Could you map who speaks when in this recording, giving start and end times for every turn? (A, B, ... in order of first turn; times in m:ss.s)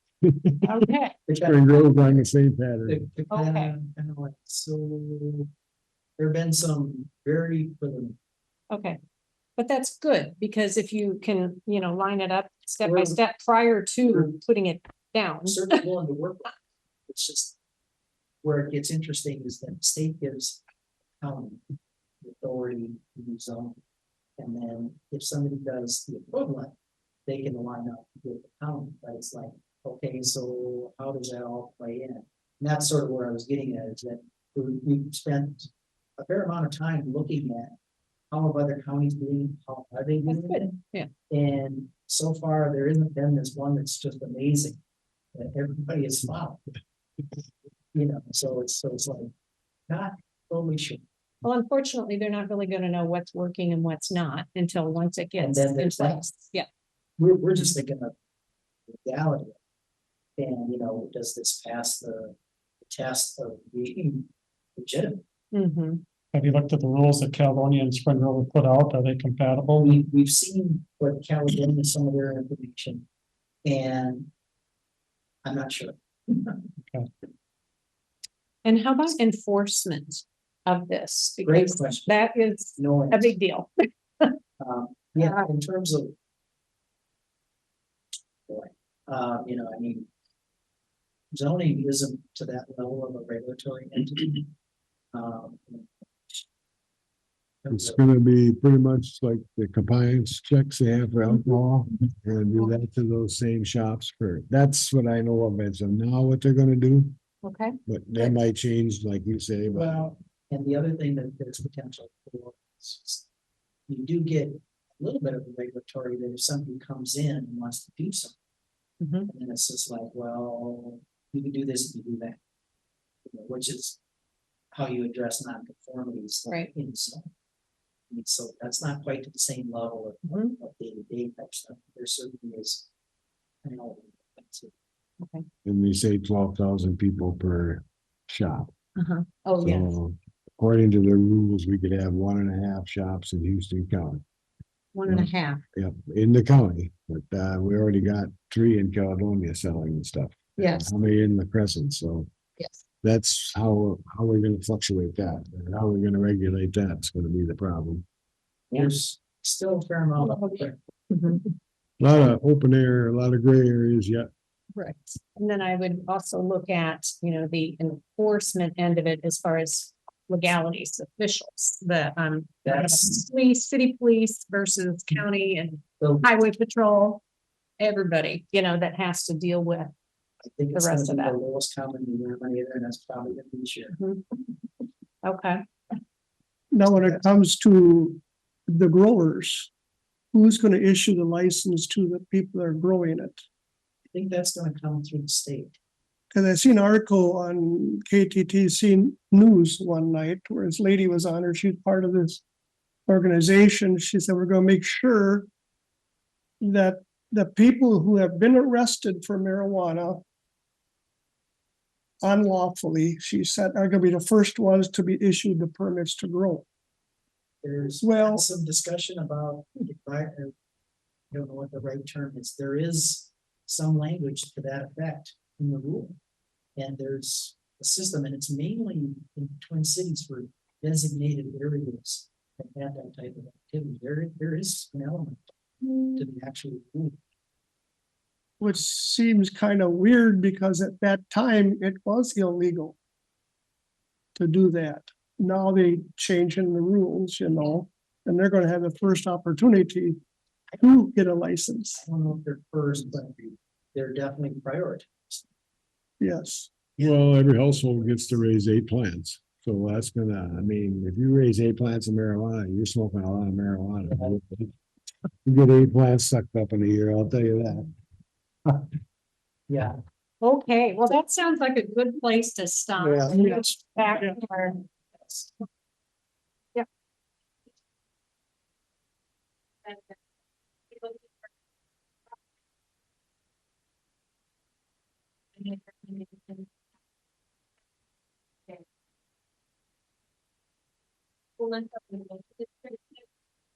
0:00.2-0:00.9 A
0:00.6-0:01.2 B
0:01.3-0:02.3 C
0:01.4-0:03.0 A
0:02.8-0:05.5 C
0:03.3-0:03.7 B
0:06.2-0:08.2 C
0:08.7-0:09.0 B
0:09.6-0:15.8 B
0:12.8-0:13.2 C
0:15.5-0:16.5 C
0:17.1-0:17.6 C
0:18.4-0:20.6 C
0:21.2-0:21.6 C
0:22.2-0:23.8 C
0:24.4-0:26.7 C
0:27.3-0:37.8 C
0:38.3-0:44.8 C
0:40.2-0:41.1 B
0:45.3-0:46.6 C
0:47.9-0:49.3 C
0:49.9-0:51.0 C
0:51.4-0:56.7 B
0:55.4-0:56.3 C
0:57.2-0:58.1 C
0:58.9-0:59.6 C
1:00.4-1:05.2 C
1:05.5-1:06.0 B
1:06.3-1:10.0 D
1:09.8-1:13.0 C
1:13.6-1:14.3 C
1:15.4-1:16.7 C
1:18.6-1:24.3 B
1:21.4-1:22.2 C
1:22.8-1:23.3 C
1:24.6-1:26.2 C
1:28.5-1:30.1 C
1:31.3-1:34.5 C
1:35.1-1:36.4 C
1:37.6-1:38.0 C
1:37.7-1:47.2 A
1:47.4-1:48.3 B
1:47.8-1:50.0 A
1:49.7-1:53.2 C
1:53.9-1:58.3 C
1:59.0-1:59.3 B
1:59.3-2:02.4 C
2:03.2-2:04.0 C
2:04.7-2:07.3 C
2:06.4-2:06.7 B
2:08.1-2:12.8 C
2:10.2-2:10.5 B
2:13.6-2:14.7 C
2:15.2-2:15.4 B
2:15.6-2:18.7 A
2:19.0-2:20.0 B
2:19.6-2:24.2 A
2:24.9-2:25.6 B
2:25.1-2:32.3 A
2:30.6-2:30.9 B
2:33.0-2:38.0 A
2:38.7-2:40.8 C
2:40.2-2:41.4 B
2:42.0-2:44.3 A
2:44.7-2:57.2 B
2:52.6-2:53.2 C
2:56.0-2:56.3 C
2:57.8-2:59.9 B
3:00.4-3:04.0 C
3:00.7-3:01.3 B
3:03.9-3:04.2 B
3:05.2-3:05.6 B
3:06.7-3:09.7 E
3:10.3-3:13.4 E
3:14.1-3:15.8 C
3:16.3-3:22.4 E
3:23.1-3:25.5 E
3:26.6-3:30.2 E
3:32.2-3:36.6 E
3:37.6-3:40.5 C
3:38.0-3:38.4 E
3:41.3-3:46.2 C
3:46.8-3:55.4 C
3:55.8-3:56.1 B
3:56.1-3:57.2 C
3:58.6-4:03.0 E
4:04.4-4:10.2 E
4:10.8-4:12.0 E
4:11.9-4:15.5 C
4:16.2-4:16.7 E
4:17.0-4:24.7 A
4:24.1-4:24.4 C
4:25.4-4:27.9 A
4:29.7-4:30.0 C
4:30.4-4:34.8 B
4:33.0-4:33.5 A
4:35.2-4:35.5 C
4:39.8-4:40.2 B
4:40.9-4:41.4 B
4:45.5-4:46.7 B
4:51.6-4:53.2 B